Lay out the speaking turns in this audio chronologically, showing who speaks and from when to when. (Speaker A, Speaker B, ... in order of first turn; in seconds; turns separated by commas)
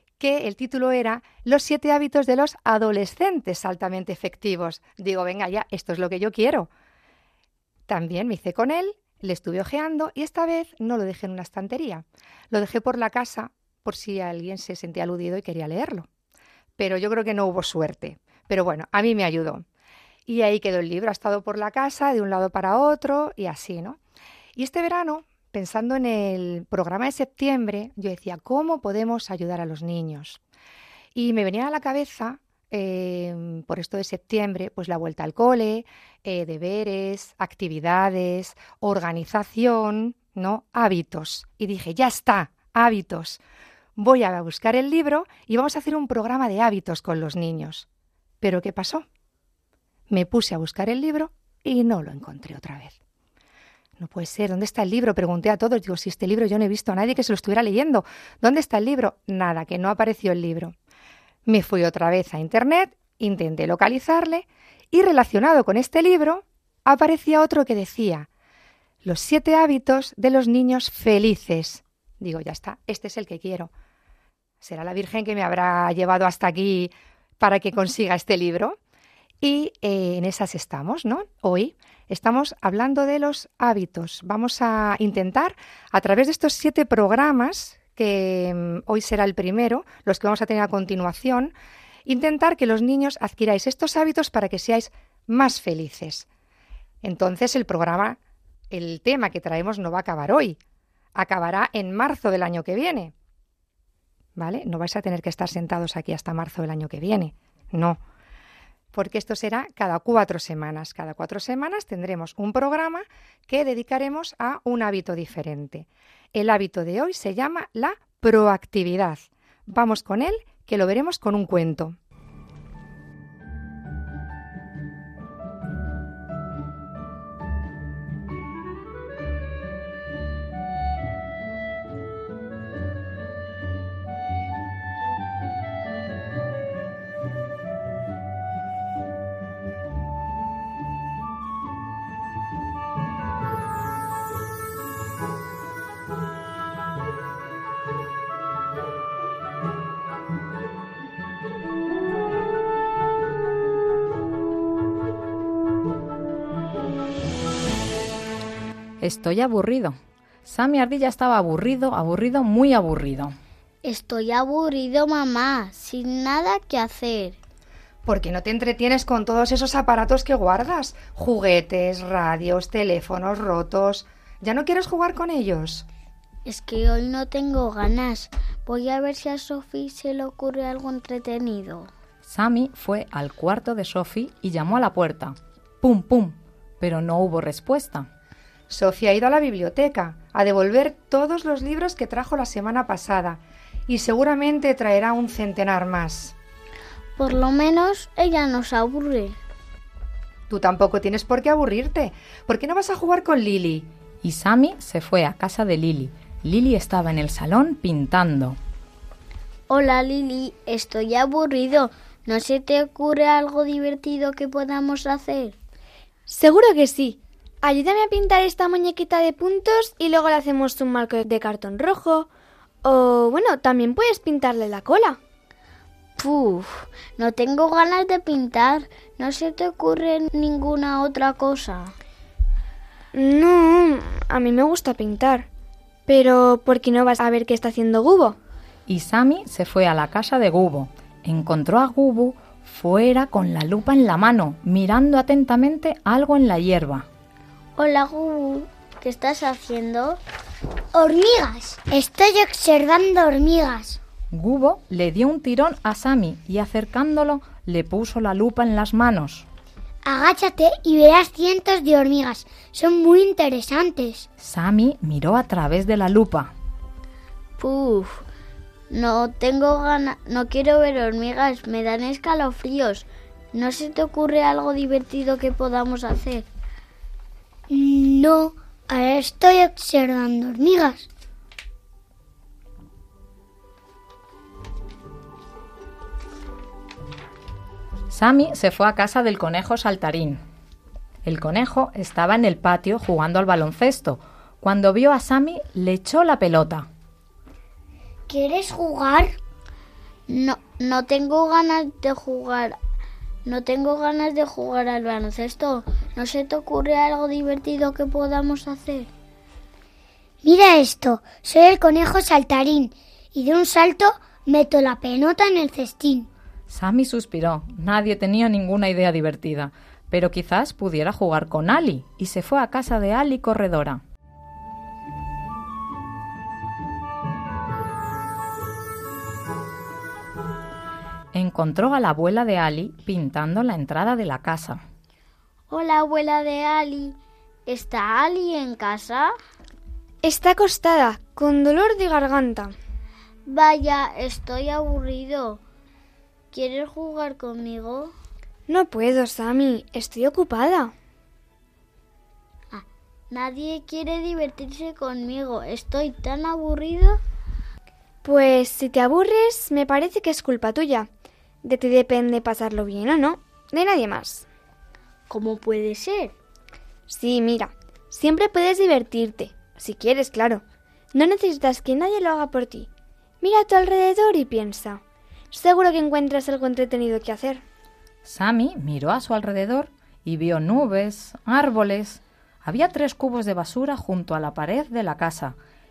Speaker A: 0.2-6.7, Speaker A: 7.9-16.1, Speaker A: 16.8-19.6, Speaker A: 20.3-24.0, Speaker A: 24.5-30.4, Speaker A: 31.1-43.4, Speaker A: 44.0-47.9, Speaker A: 48.4-49.0, Speaker A: 50.1-53.0, Speaker A: 54.0-60.7, Speaker A: 61.5-68.3, Speaker A: 69.0-73.7, Speaker A: 74.6-78.8, Speaker A: 79.4-91.5, Speaker A: 92.0-96.3, Speaker A: 97.0-98.2, Speaker A: 98.7-100.6, Speaker A: 101.1-103.1, Speaker A: 104.3-108.0, Speaker A: 108.9-122.0, Speaker B: 159.0-163.3, Speaker C: 163.8-167.4, Speaker A: 168.0-175.8, Speaker C: 176.4-181.9, Speaker B: 182.2-188.1, Speaker A: 188.7-196.3, Speaker C: 197.2-199.4, Speaker A: 200.5-203.9, Speaker B: 204.2-208.6, Speaker C: 209.7-215.6, Speaker D: 216.3-222.3, Speaker D: 222.8-225.2, Speaker C: 226.2-231.9, Speaker D: 233.1-235.5, Speaker D: 236.1-238.4, Speaker B: 238.9-247.1, Speaker C: 247.8-250.2, Speaker E: 250.9-254.0, Speaker B: 254.3-259.4, Speaker E: 260.0-264.3, Speaker B: 264.4-266.5, Speaker C: 267.6-268.2, Speaker C: 268.9-276.5, Speaker E: 277.7-281.1, Speaker B: 288.1-290.4, Speaker B: 291.2-296.9, Speaker E: 298.3-299.4, Speaker C: 300.3-302.8, Speaker C: 303.4-309.1, Speaker E: 310.4-316.3, Speaker B: 316.7-324.0, Speaker B: 331.3-334.8, Speaker C: 335.7-339.3, Speaker D: 340.2-342.7, Speaker C: 343.5-345.6, Speaker C: 346.5-348.1, Speaker D: 348.7-350.9, Speaker C: 352.7-357.2, Speaker D: 358.2-361.1, Speaker D: 361.6-364.4, Speaker C: 365.3-366.3, Speaker D: 367.1-372.9, Speaker D: 373.4-377.6, Speaker B: 378.2-385.6